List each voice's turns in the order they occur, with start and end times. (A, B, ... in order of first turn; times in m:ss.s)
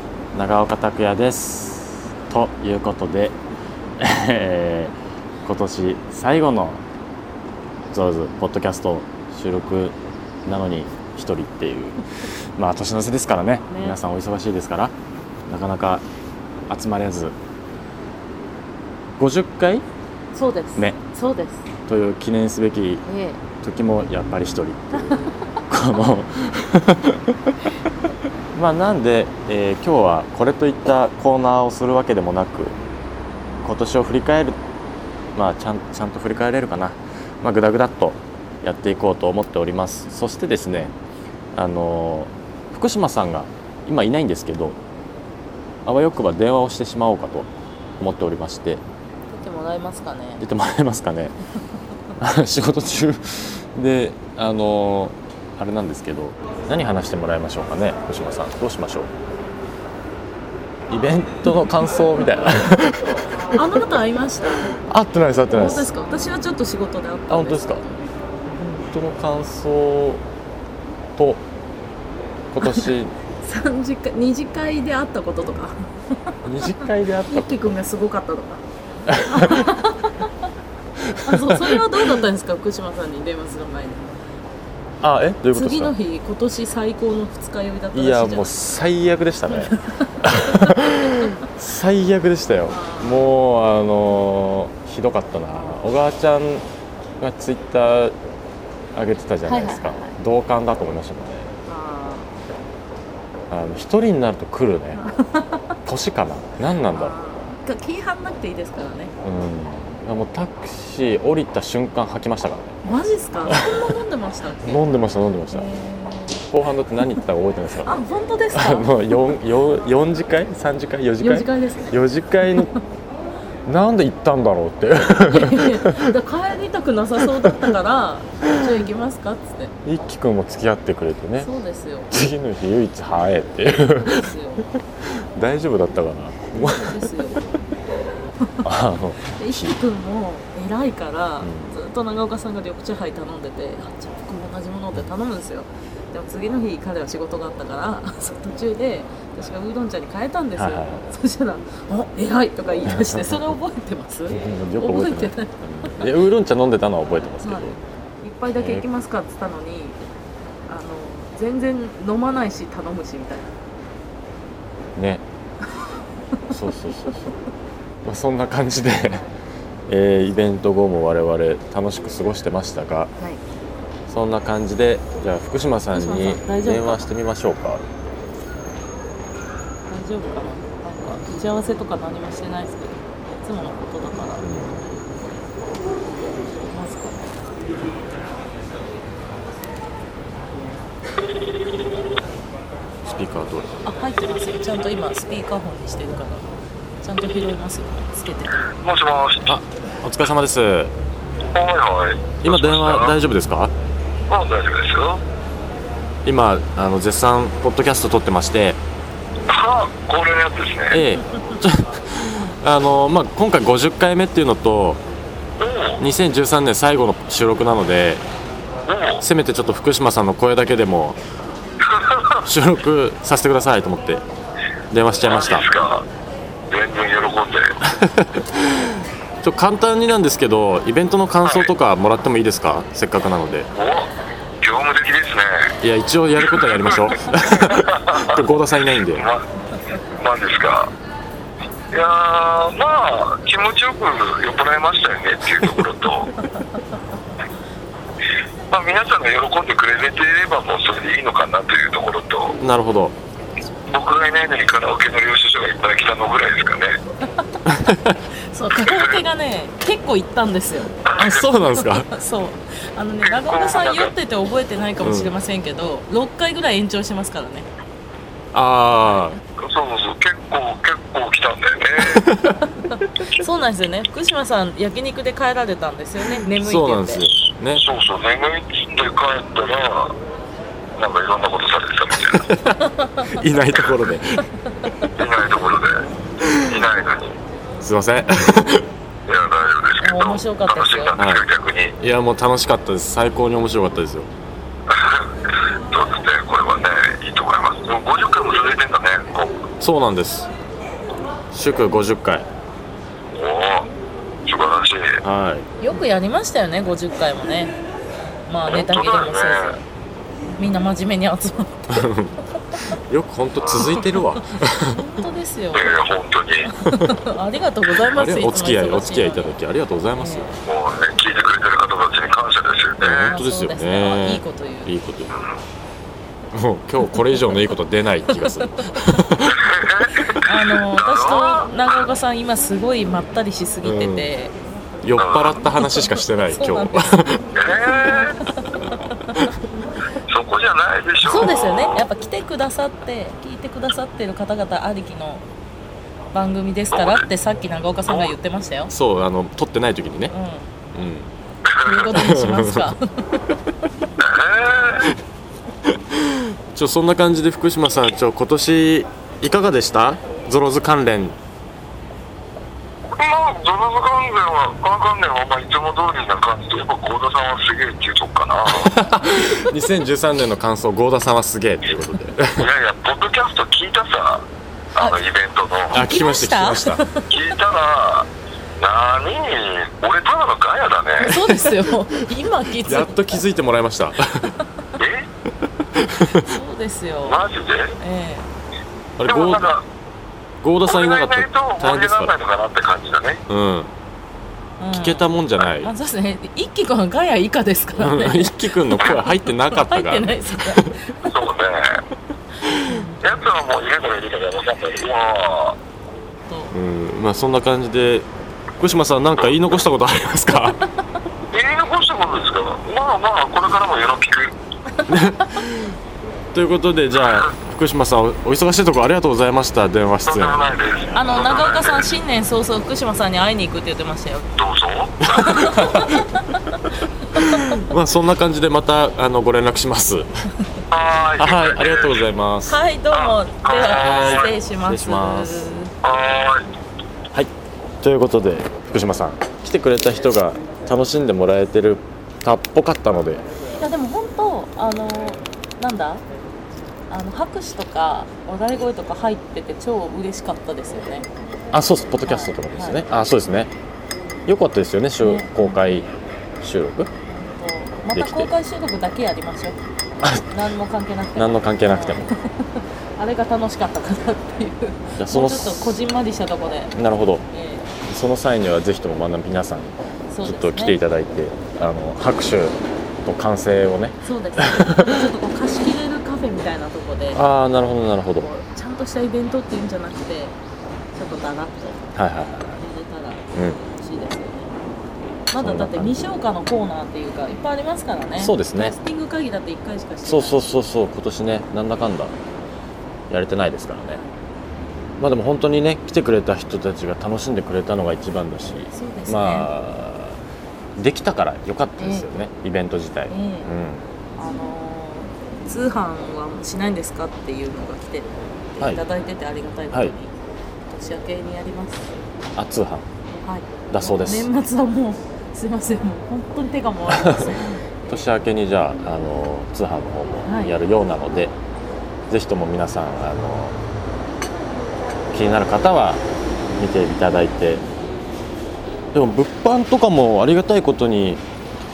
0:00.3-0:03.4 A
0:04.0-0:06.8 A
0:07.9-0:09.9 A
0:10.4-0:14.9 A
0:13.7-0:14.0 B
0:15.5-0:16.0 A
0:16.7-0:17.3 A
0:19.2-0:19.8 A
0:20.3-0:21.7 B
0:21.9-0:23.0 A
0:23.0-0:23.4 B
0:23.6-0:27.5 A
0:24.9-0:25.4 B
0:28.5-0:32.8 A
0:33.6-0:34.6 A
0:35.3-0:40.9 A
0:41.5-0:44.8 A
0:45.8-0:48.8 A
0:49.3-0:50.4 B
0:50.4-0:51.4 A
0:52.2-0:59.1 A
1:00.9-1:03.6 A
1:03.4-1:04.7 B
1:04.8-1:05.9 A
1:05.5-1:08.0 B
1:07.3-1:07.8 A
1:08.5-1:10.2 A
1:11.2-1:11.4 A
1:12.5-1:13.1 A
1:12.6-1:20.3 B
1:16.4-1:17.7 A
1:19.1-1:19.6 A
1:21.1-1:22.1 A
1:21.2-1:24.1 B
1:25.0-1:25.9 A
1:25.5-1:28.6 B
1:27.9-1:36.6 A
1:29.5-1:31.3 B
1:32.6-1:33.3 B
1:37.2-1:38.1 A
1:38.9-1:41.5 A
1:39.4-1:40.2 B
1:41.7-1:42.3 B
1:43.5-1:45.0 A
1:44.9-1:45.8 B
1:45.8-1:47.2 A
1:46.8-1:49.1 B
1:49.2-1:52.6 A
1:52.8-1:54.9 B
1:53.4-1:54.0 A
1:54.6-1:55.7 A
1:55.4-1:56.4 B
1:56.4-1:58.0 A
1:57.8-1:59.2 B
1:58.5-2:02.7 A
2:01.2-2:02.8 B
2:03.6-2:06.1 A
2:05.1-2:09.7 B
2:09.8-2:11.5 A
2:11.4-2:12.1 B
2:12.1-2:14.3 A
2:13.8-2:14.7 B
2:15.2-2:17.1 A
2:16.6-2:17.5 B
2:18.6-2:19.8 A
2:19.2-2:36.1 B
2:21.4-2:21.8 A
2:30.5-2:31.1 A
2:32.9-2:33.2 A
2:34.3-2:37.8 A
2:37.4-2:40.0 B
2:38.5-2:38.8 A
2:40.7-2:43.5 B
2:45.0-2:45.2 A
2:46.5-2:47.3 A
2:48.0-2:49.2 A
2:49.0-2:49.3 B
2:49.9-2:53.1 A
2:54.1-2:57.8 A
2:55.9-2:57.1 B
2:59.9-3:04.4 B
3:04.4-3:04.9 A
3:06.6-3:07.4 B
3:13.0-3:13.8 A
3:13.8-3:18.7 B
3:18.7-3:19.5 C
3:19.5-3:20.9 A
3:21.5-3:23.2 C
3:22.4-3:23.7 A
3:24.3-3:25.2 C
3:26.2-3:28.8 A
3:29.5-3:31.0 C
3:30.9-3:35.0 A
3:35.6-3:36.0 C
3:36.0-3:38.2 A
3:38.8-3:39.2 C
3:39.2-3:41.2 A
3:41.8-3:42.4 C
3:42.4-3:44.2 A
3:44.9-3:45.6 A
3:45.2-3:46.0 C
3:46.7-3:47.8 C
3:47.9-3:53.7 A
3:51.4-3:51.7 C
3:53.7-3:55.7 C
3:55.8-3:59.2 A
3:56.6-3:58.4 C
3:59.1-3:59.4 C
4:00.1-4:00.9 C
4:01.9-4:06.3 C
4:08.7-4:12.6 C
4:12.6-4:13.2 A
4:13.9-4:16.9 C
4:17.6-4:18.2 A
4:18.5-4:20.9 B
4:18.8-4:19.2 C
4:21.0-4:21.6 C
4:21.1-4:22.1 A
4:21.6-4:27.7 B
4:23.2-4:24.1 C
4:25.0-4:25.3 A
4:28.5-4:29.4 A
4:29.0-4:29.4 B
4:29.6-4:32.3 C
4:32.0-4:32.6 A
4:32.7-4:37.2 B
4:36.5-4:37.8 A
4:37.7-4:40.2 C
4:40.9-4:42.4 C
4:42.3-4:44.5 A
4:42.8-4:43.4 B
4:43.7-4:44.0 C
4:44.8-4:45.1 B
4:45.1-4:47.4 C
4:46.4-4:46.7 A
4:47.8-4:48.9 A
4:49.3-4:52.0 C
4:50.0-4:51.2 B
4:51.2-4:51.4 A
4:52.0-4:54.3 A
4:54.9-4:55.3 C
4:55.9-4:59.6 C
4:59.8-5:00.5 A
5:01.5-5:02.5 A
5:03.3-5:03.9 C
5:04.4-5:05.2 C
5:05.2-5:06.0 A
5:05.8-5:07.8 B
5:08.5-5:09.8 B
5:08.7-5:09.8 C
5:10.5-5:12.1 B
5:11.9-5:12.4 A
5:12.9-5:15.0 A
5:13.6-5:13.9 C
5:13.9-5:16.0 B
5:15.7-5:16.7 C
5:16.8-5:19.6 B
5:18.0-5:20.5 A
5:20.1-5:20.5 B
5:20.6-5:23.4 C
5:23.0-5:25.3 A
5:23.3-5:24.9 B
5:25.3-5:25.6 C
5:26.5-5:29.6 A
5:28.3-5:29.0 B
5:29.5-5:31.7 C
5:30.2-5:30.7 A
5:30.4-5:34.5 B
5:33.8-5:34.3 A
5:35.0-5:37.5 A
5:35.1-5:35.6 C
5:35.7-5:37.1 B
5:37.5-5:38.4 C
5:38.1-5:39.5 B
5:40.3-5:42.1 C
5:41.2-5:45.4 B
5:46.3-5:48.9 B
5:46.9-5:47.3 C
5:48.1-5:48.3 C
5:48.9-5:50.3 A
5:50.3-5:50.7 B
5:50.9-5:51.3 A
5:51.6-5:52.2 C
5:51.8-5:53.6 B
5:52.1-5:52.9 A
5:54.2-5:55.1 C
5:55.9-6:01.4 A
6:03.2-6:09.0 C
6:08.7-6:12.7 A
6:12.6-6:16.1 C
6:15.9-6:17.3 B
6:15.9-6:17.0 A
6:17.3-6:21.3 C
6:21.2-6:23.4 B
6:22.8-6:24.5 A
6:25.0-6:25.3 C
6:25.9-6:26.5 A
6:26.3-6:27.4 B
6:27.2-6:28.0 C
6:28.0-6:28.5 B
6:29.2-6:29.7 A
6:29.2-6:29.8 C
6:30.6-6:32.3 A
6:30.8-6:33.4 C
6:33.5-6:33.9 A
6:34.8-6:41.3 B
6:34.9-6:35.9 A
6:38.0-6:41.0 A
6:39.0-6:39.2 C
6:41.2-6:42.0 C
6:42.6-6:43.0 A
6:42.8-6:43.2 B
6:43.2-6:45.8 C
6:46.5-6:46.7 B
6:46.7-6:50.8 A
6:51.5-6:54.6 C
6:55.1-6:56.0 A
6:55.1-6:55.6 B
6:56.5-7:00.7 A
7:00.2-7:02.1 C
7:01.1-7:04.5 B
7:04.6-7:05.8 C
7:05.3-7:06.6 B
7:05.4-7:06.2 A
7:07.3-7:10.3 A
7:10.9-7:12.2 C
7:11.4-7:12.8 A
7:12.6-7:15.9 B
7:13.1-7:14.5 C
7:13.9-7:15.8 A
7:16.0-7:16.7 C
7:17.3-7:23.4 A
7:23.8-7:26.2 B
7:27.1-7:31.3 B
7:31.7-7:33.7 A
7:32.2-7:33.0 B
7:34.4-7:36.1 A
7:35.2-7:36.1 B
7:36.6-7:37.1 A
7:37.3-7:39.8 B
7:38.1-7:38.5 A
7:40.4-7:46.9 B
7:41.4-7:42.3 A
7:45.2-7:46.0 A
7:46.9-7:47.4 A
7:47.5-7:47.9 B
7:48.0-7:55.0 A
7:50.3-7:51.0 B
7:54.2-7:57.4 B
7:57.3-7:58.5 A
7:58.4-8:00.6 B
8:01.1-8:02.1 B
8:02.1-8:02.8 A
8:02.8-8:04.8 B
8:03.5-8:03.8 A
8:05.5-8:10.8 B
8:05.6-8:06.3 A
8:08.4-8:08.9 A
8:10.2-8:12.4 A
8:13.3-8:14.2 A
8:14.1-8:14.3 B
8:15.2-8:20.4 A
8:18.9-8:19.7 B
8:21.0-8:24.0 A
8:22.0-8:22.3 B
8:23.3-8:23.7 B
8:24.4-8:30.3 B
8:30.9-8:32.2 B
8:32.6-8:33.1 A
8:33.3-8:38.3 B
8:33.9-8:34.5 A
8:38.1-8:41.5 A
8:40.4-8:40.8 B
8:42.3-8:43.8 A
8:45.3-8:47.8 A
8:49.1-8:51.4 A